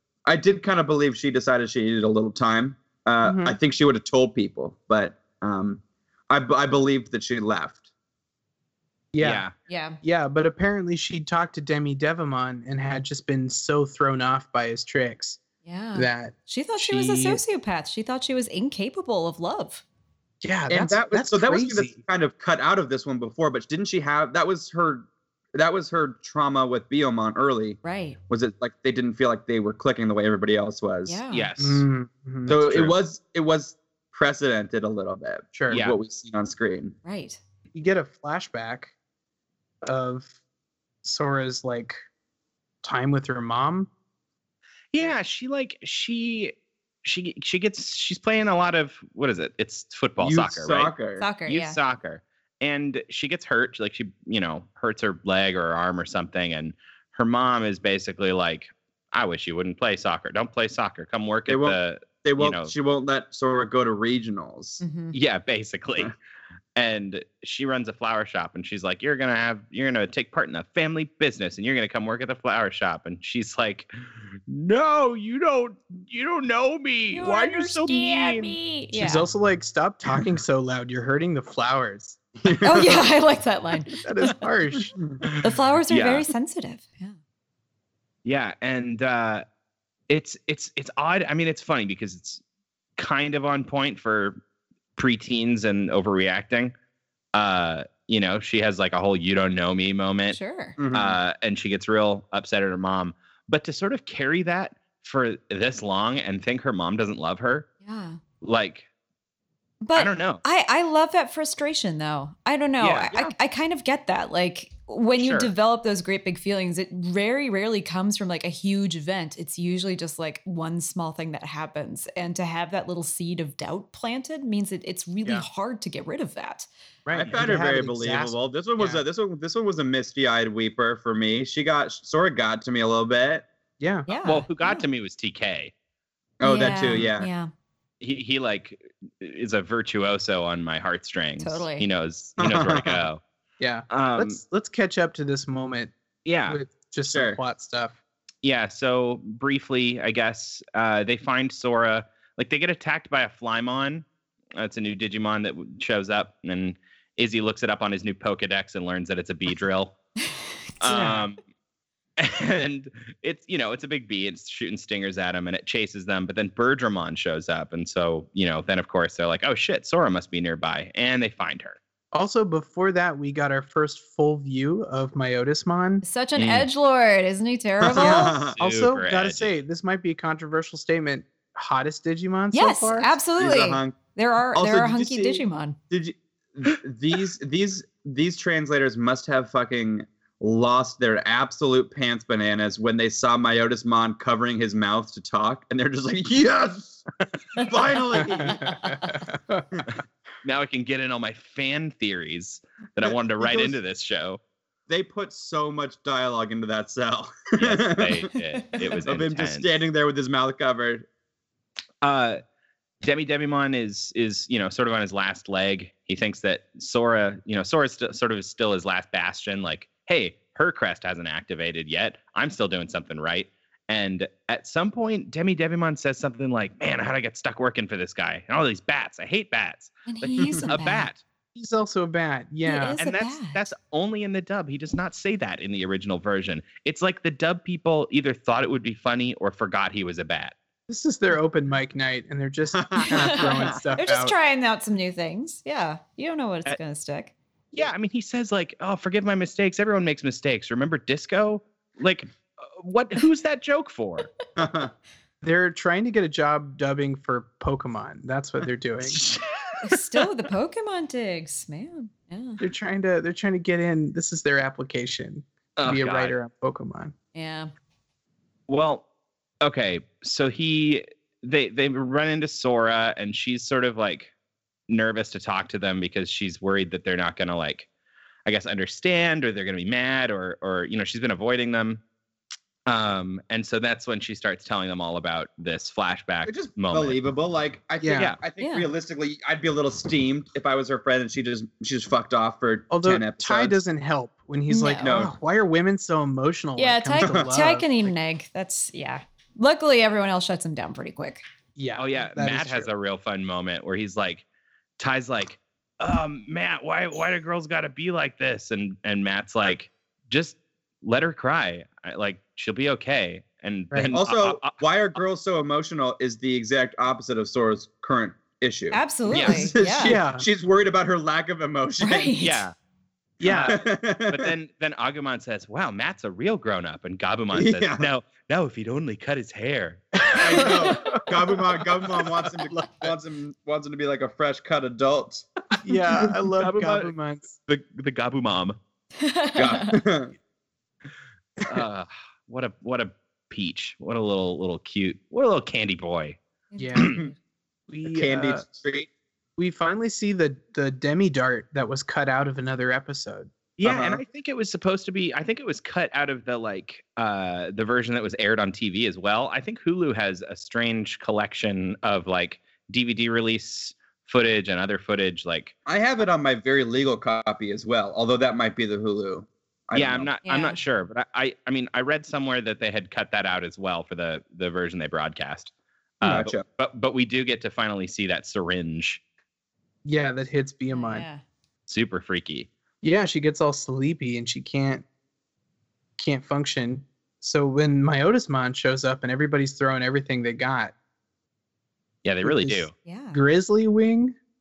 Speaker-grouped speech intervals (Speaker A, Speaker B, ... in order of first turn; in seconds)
Speaker A: 0.2-7.8, 20.7-31.2, 32.5-37.0, 50.2-51.3, 61.5-64.8, 82.4-83.0, 100.8-101.2, 127.1-133.5, 136.4-137.3, 142.4-143.0, 147.1-147.4, 177.8-178.6, 183.4-184.0, 184.5-199.0, 203.4-203.7, 204.9-208.3, 209.0-211.1, 242.7-243.7, 254.6-254.9, 286.4-293.8, 295.0-295.4, 297.2-297.5, 314.1-322.4, 323.5-324.5, 327.5-328.1, 330.3-335.5, 339.5-340.3, 348.1-349.1, 353.8-354.2, 365.9-370.3, 376.2-376.6
Speaker B: 3.2-3.6, 9.1-9.4, 10.0-15.4, 15.9-17.4, 20.4-22.0, 31.6-32.6, 35.5-35.8, 37.7-38.9, 39.8-40.3, 41.0-42.0, 42.8-43.9, 78.9-82.2, 84.0-84.9, 127.0-129.0, 133.8-134.1, 143.6-145.9, 146.5-148.0, 160.9-161.2, 172.1-176.0, 177.9-183.1, 198.3-199.6, 231.5-233.0, 240.9-244.3, 255.4-259.2, 262.6-267.1, 288.0-288.3, 292.9-298.1, 301.8-302.9, 320.0-320.4, 323.4-323.8, 330.3-331.6, 332.4-333.1, 335.8-337.6, 346.8-347.2, 347.9-348.6, 349.6-353.5, 380.0-381.2, 383.0-385.0, 386.2-390.9, 392.4-394.4
Speaker C: 9.2-9.5, 31.3-31.8, 32.6-33.0, 35.7-36.0, 44.9-50.9, 51.5-62.7, 65.1-66.1, 66.8-78.6, 85.2-86.3, 88.2-89.4, 90.1-92.4, 93.0-94.4, 95.0-96.7, 97.3-100.4, 100.9-107.7, 108.4-108.8, 109.9-110.4, 112.8-113.3, 115.2-115.5, 134.2-135.7, 138.0-143.2, 143.9-144.4, 146.2-146.6, 148.4-154.0, 154.6-159.9, 160.8-161.4, 162.2-171.8, 176.3-176.7, 178.6-179.5, 200.4-204.4, 207.6-209.7, 212.0-212.4, 213.0-231.2, 233.0-240.5, 247.7-254.3, 259.0-260.2, 265.8-266.3, 268.7-269.0, 269.6-274.3, 274.9-277.9, 278.4-282.0, 282.9-287.2, 302.0-304.4, 305.0-314.8, 319.3-319.7, 322.4-322.7, 323.4-330.7, 336.6-338.8, 341.6-346.4, 353.8-365.7, 369.9-379.2, 381.9-382.7, 392.2-392.9
Speaker D: 9.7-10.0, 15.6-19.8, 27.8-28.2, 31.1-31.5, 37.0-37.4, 51.2-51.8, 64.8-65.2, 77.1-79.3, 82.6-84.3, 85.4-87.1, 100.3-100.8, 107.8-108.2, 109.8-126.7, 134.1-134.8, 136.4-137.5, 141.4-141.8, 160.8-161.2, 176.0-178.4, 182.5-185.8, 198.8-199.1, 230.1-231.1, 232.6-233.6, 243.0-247.3, 259.8-262.6, 267.3-267.7, 288.6-288.9, 294.7-295.2, 296.8-301.4, 318.9-320.2, 322.0-322.6, 339.2-340.0, 346.7-347.3, 370.4-370.8, 380.9-381.4, 393.0-393.4